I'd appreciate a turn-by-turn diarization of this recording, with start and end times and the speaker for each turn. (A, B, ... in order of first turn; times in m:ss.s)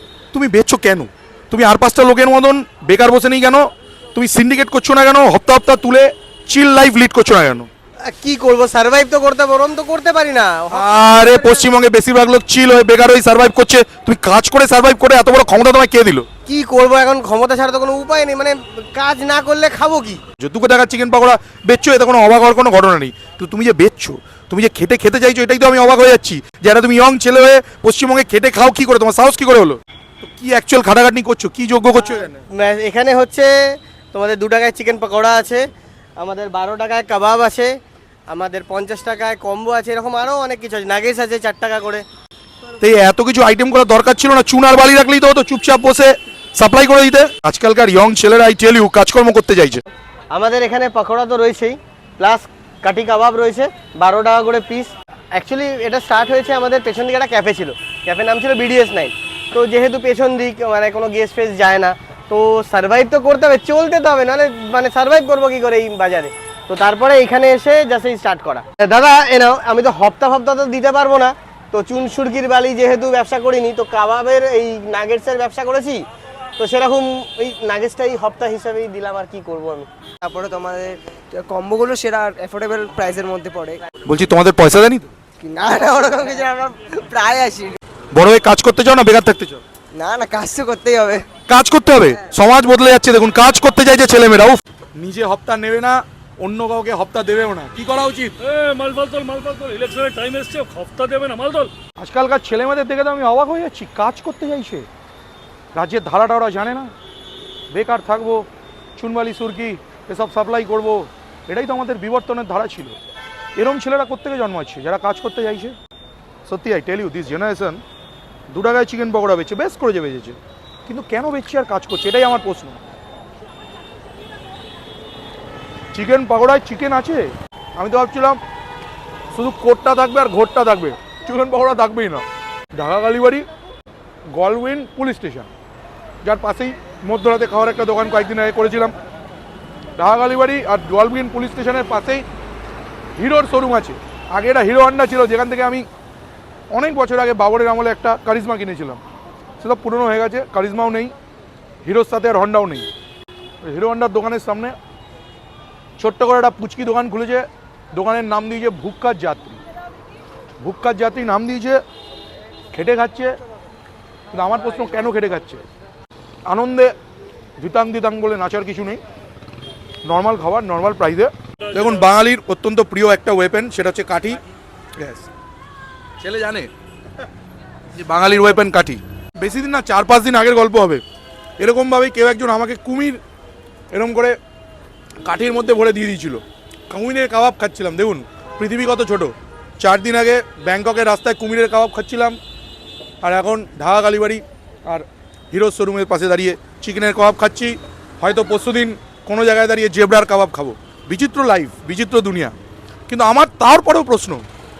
0:00.3-0:07.7 A
0:08.1-0:11.7 B
0:10.7-0:16.2 A
0:16.4-0:20.2 B
0:20.4-0:32.3 A
0:31.9-0:35.6 B
0:36.2-0:37.7 B
0:38.3-0:42.0 B
0:42.8-0:49.8 A
0:50.3-1:16.0 B
1:16.6-1:19.9 B
1:20.2-1:23.8 C
1:24.0-1:25.1 A
1:25.4-1:27.8 C
1:28.1-1:29.6 A
1:30.0-1:31.2 C
1:31.5-1:38.3 A
1:38.4-1:41.7 D
1:42.0-1:44.8 A
1:45.7-1:46.9 A
1:47.7-1:53.0 A
1:53.6-1:55.8 A
1:56.4-1:57.8 A
1:58.5-2:02.8 A
2:05.9-2:08.4 A
2:09.3-2:12.2 A
2:12.8-2:13.4 A
2:14.3-2:15.5 A
2:16.2-2:18.9 A
2:20.0-2:22.2 A
2:23.2-2:25.9 A
2:26.7-2:29.0 A
2:29.6-2:31.1 A
2:31.8-2:32.9 A
2:33.6-2:34.7 A
2:36.0-2:39.6 A
2:40.6-2:41.8 A
2:42.7-2:43.3 A
2:44.3-2:45.6 A
2:46.5-2:46.9 A
2:47.6-2:49.0 A
2:50.0-2:54.4 A
2:55.0-2:55.3 A
2:56.2-2:56.7 A
2:58.0-3:01.0 A
3:01.6-3:03.2 A
3:03.9-3:04.4 A
3:05.2-3:12.4 A
3:13.2-3:22.5 A
3:23.1-3:24.4 A